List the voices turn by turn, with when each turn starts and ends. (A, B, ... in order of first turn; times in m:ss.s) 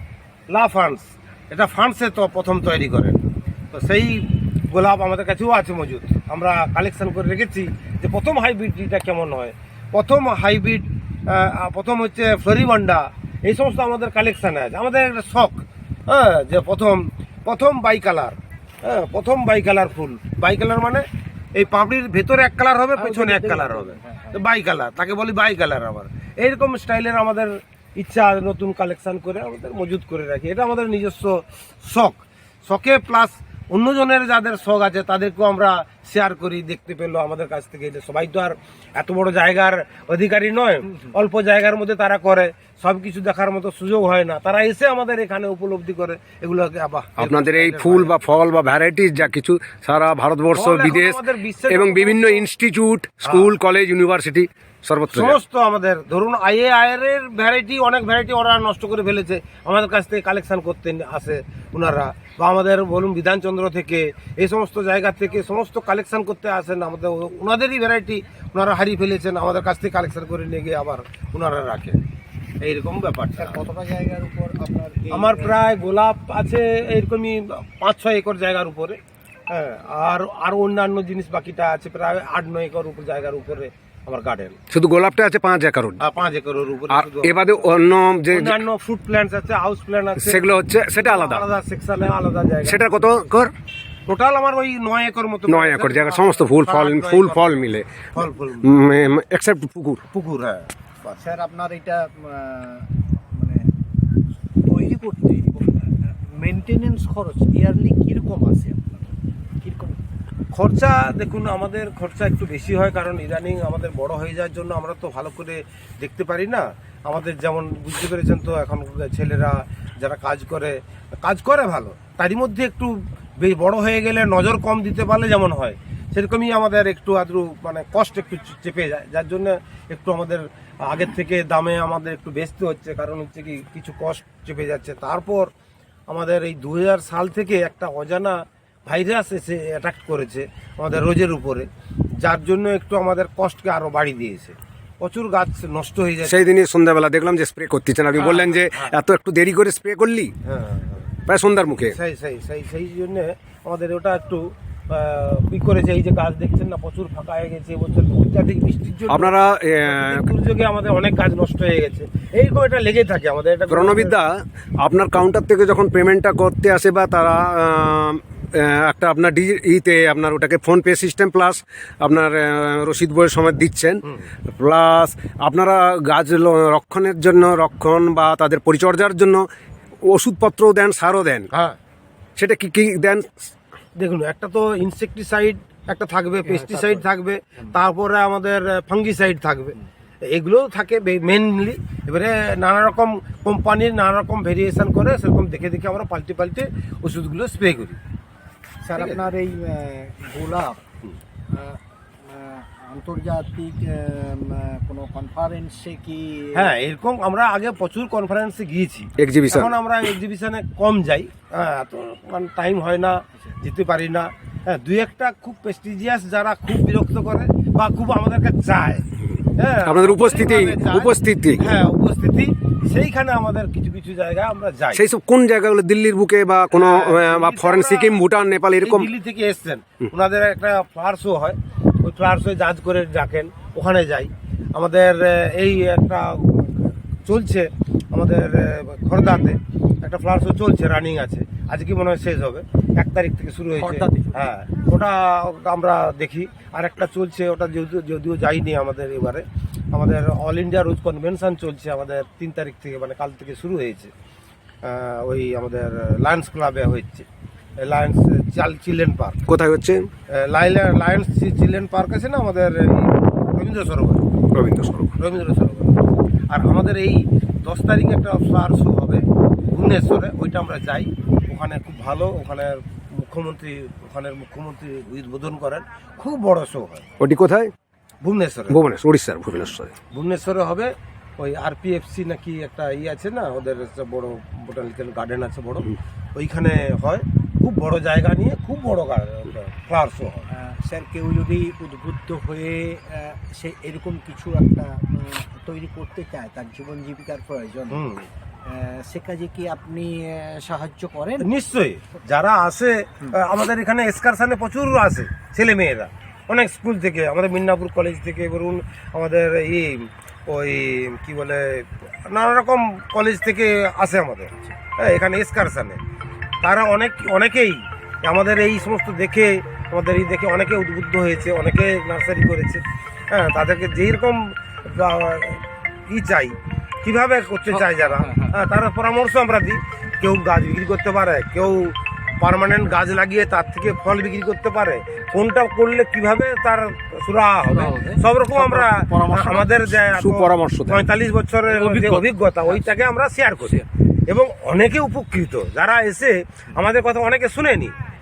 0:00.5-0:48.1 A
0:23.0-0:24.4 B
0:47.2-0:55.4 C
0:50.5-0:52.4 A
0:55.1-1:12.0 A
1:12.6-1:13.6 A
1:13.4-1:15.6 B
1:15.1-1:24.6 A
1:24.7-1:26.0 C
1:26.0-1:27.6 A
1:26.9-1:28.6 C
1:28.3-1:30.4 A
1:30.2-1:31.4 C
1:31.0-1:32.8 A
1:32.6-1:33.5 C
1:34.1-1:37.4 A
1:35.5-1:38.1 C
1:38.1-1:38.7 A
1:38.6-1:40.0 C
1:40.1-1:41.2 A
1:41.2-1:43.7 B
1:44.6-1:49.1 B
1:49.6-1:50.0 B
1:50.5-2:15.5 A
2:16.1-2:26.4 A
2:26.2-2:30.3 C
2:28.2-2:28.9 A
2:30.4-2:31.1 A
2:31.3-2:32.0 C
2:31.8-2:44.2 A
2:39.1-2:40.3 C
2:43.7-2:54.0 C
2:54.5-2:59.4 C
3:00.1-3:01.5 C
3:01.5-3:01.8 A
3:02.4-3:03.3 C
3:04.0-3:18.0 A
3:06.5-3:07.0 B
3:18.8-3:20.8 B
3:19.0-3:19.3 A
3:21.5-3:26.7 B
3:26.5-3:39.0 A
3:29.2-3:29.7 C
3:39.6-3:45.0 A
3:39.8-3:41.6 C
3:45.0-3:49.1 C
3:46.7-3:48.2 A
3:48.8-4:14.1 A
4:03.8-4:04.4 B
4:14.8-4:17.3 A
4:17.8-4:19.4 A
4:19.5-4:20.1 C
4:20.3-4:24.2 A
4:24.5-4:25.1 C
4:25.2-4:26.0 A
4:26.5-4:37.1 A
4:37.2-4:37.7 C
4:38.2-4:38.8 A
4:38.7-4:39.9 C
4:40.1-4:50.5 A
4:50.5-4:58.1 B
4:57.9-4:58.3 A
4:58.6-5:01.5 B
5:01.4-5:16.0 A
5:16.6-5:47.9 A
5:37.7-5:39.7 B
5:40.2-5:41.0 C
5:41.7-5:42.2 B